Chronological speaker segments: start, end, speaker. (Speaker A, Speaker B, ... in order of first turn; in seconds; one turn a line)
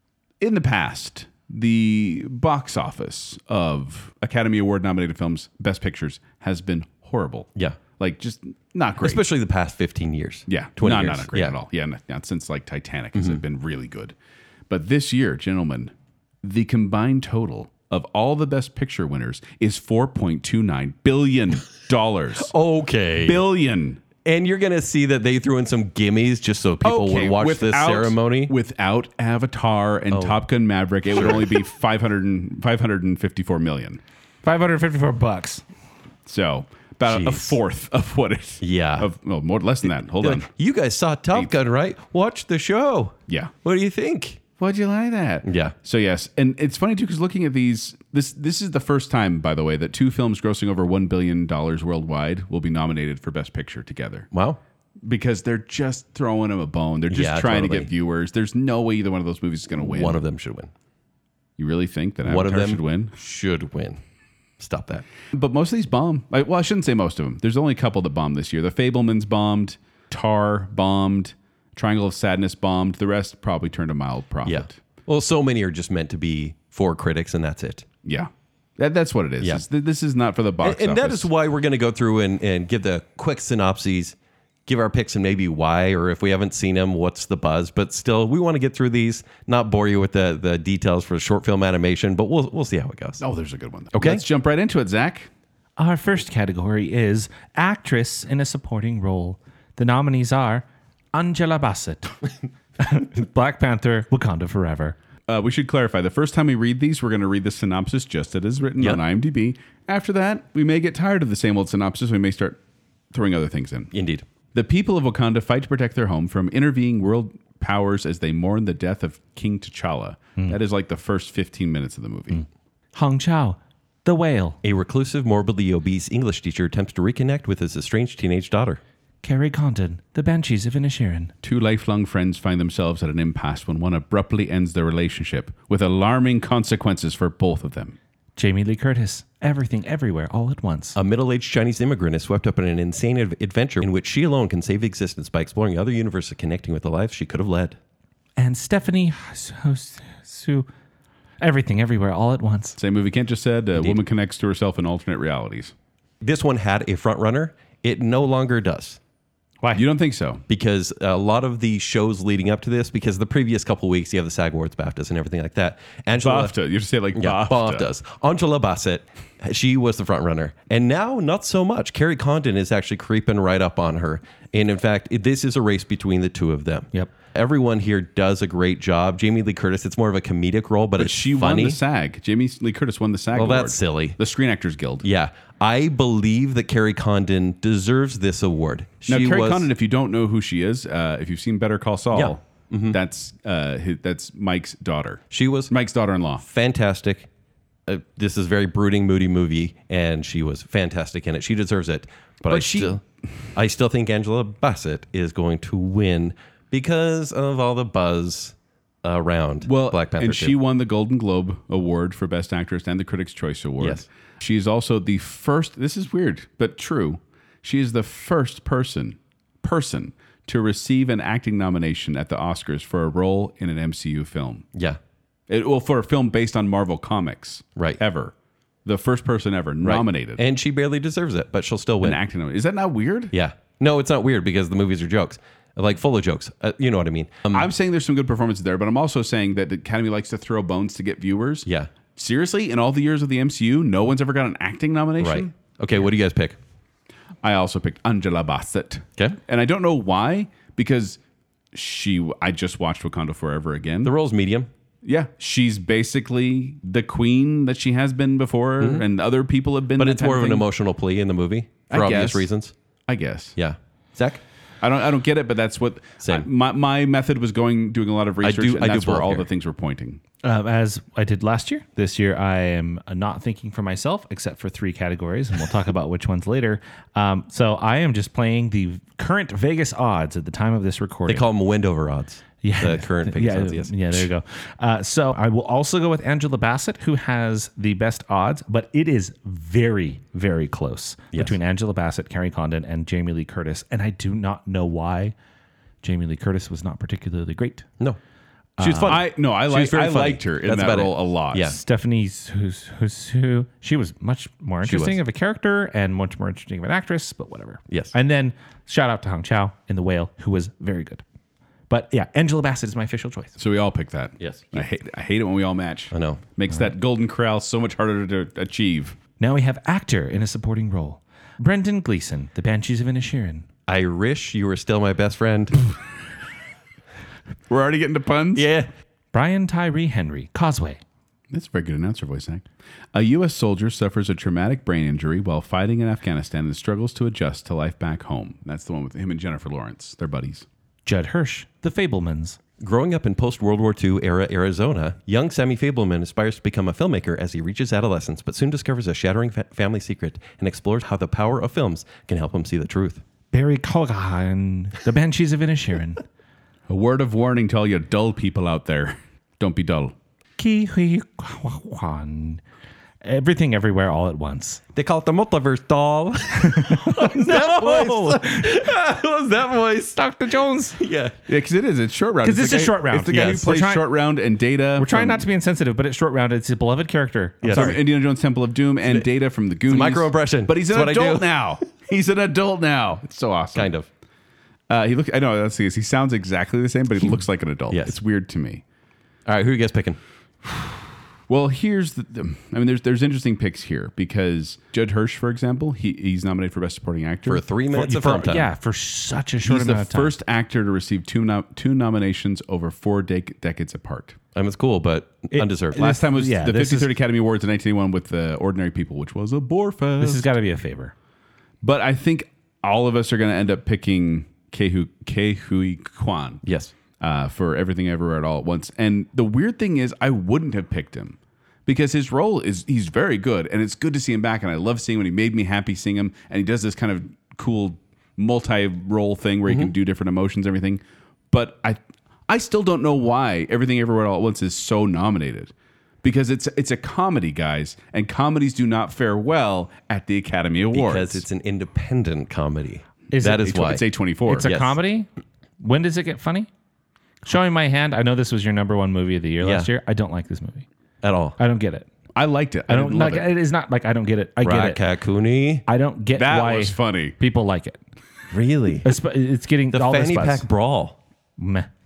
Speaker A: 0.4-9.2
Speaker B: 9.0-11.6
Speaker A: 10.5-14.1
Speaker B: 13.1-13.4
Speaker A: 14.7-22.5
Speaker B: 22.4-23.4
Speaker A: 23.2-24.0
Speaker B: 24.2-28.5
Speaker A: 26.8-34.0
Speaker B: 30.1-30.4
Speaker B: 31.1-31.6
Speaker C: 34.4-35.6
Speaker A: 36.2-40.5
Speaker B: 37.0-37.6
Speaker B: 38.6-39.1
Speaker B: 40.2-44.4
Speaker A: 44.6-54.3
Speaker B: 45.4-45.7
Speaker B: 54.3-54.6
Speaker A: 55.0-60.2
Speaker B: 57.1-57.9
Speaker B: 59.8-60.7
Speaker A: 61.6-63.1
Speaker B: 62.2-64.0
Speaker B: 64.6-65.0
Speaker A: 65.3-74.8
Speaker B: 74.4-77.9
Speaker A: 78.0-81.3
Speaker B: 80.6-84.2
Speaker B: 84.7-93.2
Speaker A: 93.2-95.3
Speaker B: 93.9-94.2
Speaker C: 95.8-102.2
Speaker C: 102.8-105.0
Speaker A: 105.3-112.6
Speaker A: 113.1-113.9
Speaker B: 113.9-114.2
Speaker A: 114.5-122.4
Speaker C: 122.9-124.6
Speaker B: 124.6-128.8
Speaker C: 129.2-131.3
Speaker A: 131.4-137.9
Speaker C: 138.4-141.0
Speaker B: 140.9-147.8
Speaker C: 148.4-150.7
Speaker C: 151.4-152.8
Speaker A: 152.8-155.7
Speaker B: 156.2-159.0
Speaker A: 159.7-160.4
Speaker B: 160.5-166.5
Speaker A: 166.2-167.9
Speaker B: 167.1-181.8
Speaker A: 181.0-185.1
Speaker B: 183.3-184.2
Speaker B: 185.0-189.7
Speaker A: 189.1-196.4
Speaker B: 192.1-193.0
Speaker B: 195.3-195.7
Speaker B: 196.4-197.3
Speaker B: 197.9-203.0
Speaker A: 202.5-203.0
Speaker B: 203.5-210.6
Speaker A: 209.6-224.7
Speaker B: 213.8-214.0
Speaker A: 225.5-228.3
Speaker A: 228.8-230.4
Speaker B: 229.8-232.2
Speaker A: 232.0-233.3
Speaker B: 233.3-237.7
Speaker A: 237.5-245.6
Speaker B: 245.2-246.6
Speaker A: 247.4-251.2
Speaker A: 251.7-254.1
Speaker B: 254.0-254.7
Speaker A: 255.0-260.7
Speaker B: 258.8-259.0
Speaker B: 260.0-262.7
Speaker A: 261.9-262.5
Speaker A: 263.1-263.6
Speaker B: 263.6-264.4
Speaker A: 264.8-270.2
Speaker B: 268.4-269.5
Speaker C: 270.4-281.5
Speaker B: 281.3-284.3
Speaker C: 282.6-295.3
Speaker C: 296.0-297.9
Speaker C: 298.8-299.2
Speaker B: 298.8-301.8
Speaker A: 299.0-301.7
Speaker C: 301.7-311.2
Speaker B: 304.8-305.2
Speaker B: 307.9-308.1
Speaker C: 311.9-313.6
Speaker A: 313.6-319.2
Speaker B: 314.4-314.8
Speaker B: 316.1-316.4
Speaker C: 319.4-323.6
Speaker B: 323.9-325.8
Speaker A: 327.7-328.7
Speaker B: 328.5-328.9
Speaker C: 329.3-331.0
Speaker A: 331.5-340.6
Speaker C: 341.1-342.6
Speaker B: 342.8-353.2
Speaker C: 353.5-356.2
Speaker A: 356.9-360.1
Speaker C: 360.6-362.6
Speaker C: 363.2-364.8
Speaker B: 364.9-370.2
Speaker C: 366.5-368.8
Speaker C: 370.1-371.0
Speaker B: 370.9-371.4
Speaker A: 371.5-375.4
Speaker C: 372.4-374.1
Speaker B: 373.3-373.7
Speaker C: 375.0-378.0
Speaker B: 377.6-378.0
Speaker A: 377.7-383.9
Speaker B: 379.9-381.5
Speaker B: 383.7-384.1
Speaker A: 384.9-388.8
Speaker B: 387.9-388.2
Speaker B: 389.4-390.2
Speaker A: 391.5-397.6
Speaker B: 397.5-398.7
Speaker C: 397.9-400.3
Speaker A: 399.6-404.4
Speaker B: 404.5-406.0
Speaker C: 405.5-407.1
Speaker A: 405.9-410.4
Speaker C: 410.2-411.1
Speaker A: 411.8-416.6
Speaker B: 416.6-416.9
Speaker A: 417.2-435.7
Speaker A: 436.2-441.4
Speaker B: 440.9-444.9
Speaker C: 443.3-443.7
Speaker A: 443.4-444.7
Speaker C: 444.5-445.3
Speaker C: 445.8-446.7
Speaker C: 447.4-450.9
Speaker B: 449.6-449.9
Speaker B: 451.2-451.6
Speaker C: 451.6-452.1
Speaker A: 452.3-453.5
Speaker C: 452.9-455.0
Speaker B: 454.6-455.8
Speaker C: 455.9-458.0
Speaker A: 456.4-457.4
Speaker B: 458.5-459.1
Speaker C: 459.0-460.6
Speaker B: 459.9-461.2
Speaker C: 461.6-461.9